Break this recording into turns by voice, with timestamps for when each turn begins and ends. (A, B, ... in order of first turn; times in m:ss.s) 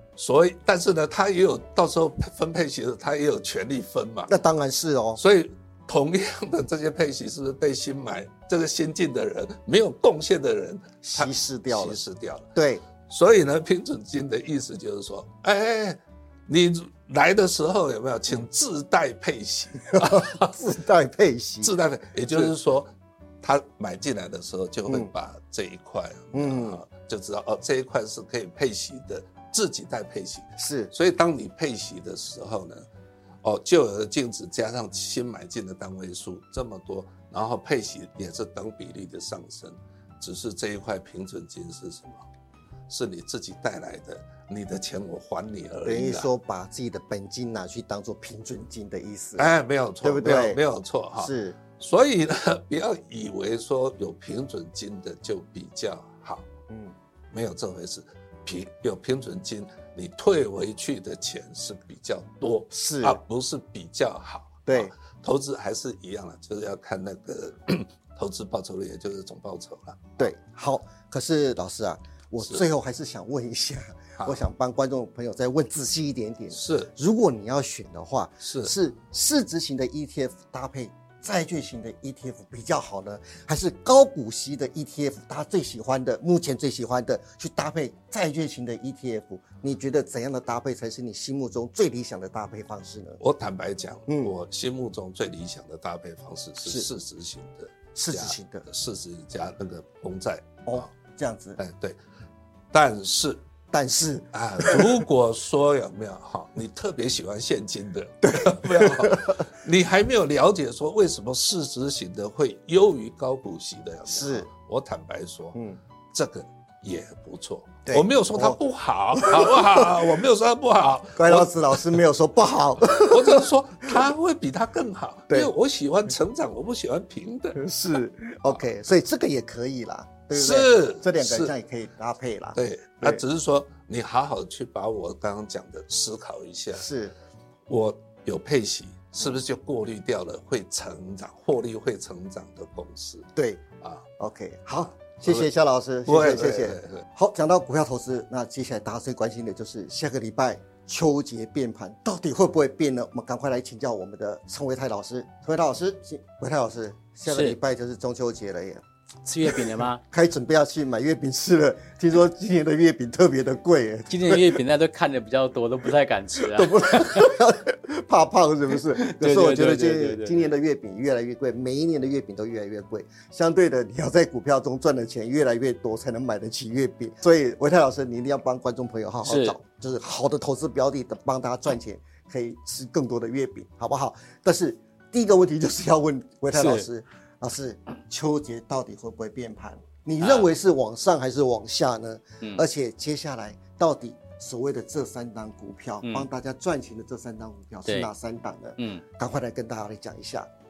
0:00.2-0:04.4 A
0:04.3-0:05.2 B
0:05.2-0:12.5 A
0:11.0-0:12.0 B
0:12.5-0:12.8 B
0:13.0-0:20.6 A
0:19.9-0:21.7 B
0:21.6-0:22.9 A
0:23.4-0:32.8 A
0:26.3-0:26.8 B
0:30.6-0:30.9 B
0:33.4-0:42.2 A
0:42.9-0:46.3 A
0:45.8-0:49.5 B
0:49.4-0:56.5 A
0:50.0-0:50.6 B
0:51.2-0:51.6 B
0:56.7-0:56.9 B
0:57.3-1:10.3 A
1:02.7-1:03.2 B
1:04.7-1:04.9 B
1:10.2-1:33.2 B
1:16.5-1:16.9 A
1:18.4-1:18.7 A
1:33.2-1:40.9 A
1:34.1-1:34.3 B
1:37.9-1:38.6 B
1:40.7-1:41.6 B
1:41.6-1:42.0 A
1:42.7-1:43.4 A
1:43.7-1:45.0 B
1:44.3-1:55.6 A
1:48.2-1:49.4 B
1:54.1-1:54.5 B
1:56.1-2:02.0 A
1:57.9-1:58.6 B
1:59.2-2:00.1 B
2:01.2-2:04.1 B
2:02.9-2:07.6 A
2:07.5-2:13.2 B
2:10.3-2:11.5 A
2:12.5-2:16.8 A
2:16.8-2:17.1 B
2:17.7-2:23.3 A
2:23.4-2:23.6 B
2:24.2-2:38.8 B
2:25.1-2:25.5 A
2:26.0-2:27.0 A
2:37.2-2:37.6 C
2:39.2-2:40.0 C
2:39.4-2:44.6 B
2:44.1-2:47.3 C
2:46.4-3:20.5 B
2:49.0-2:50.5 C
2:59.2-2:59.6 C
3:06.5-3:06.9 C
3:10.2-3:10.5 C
3:16.0-3:16.3 C
3:17.8-3:18.1 C
3:18.8-3:19.0 C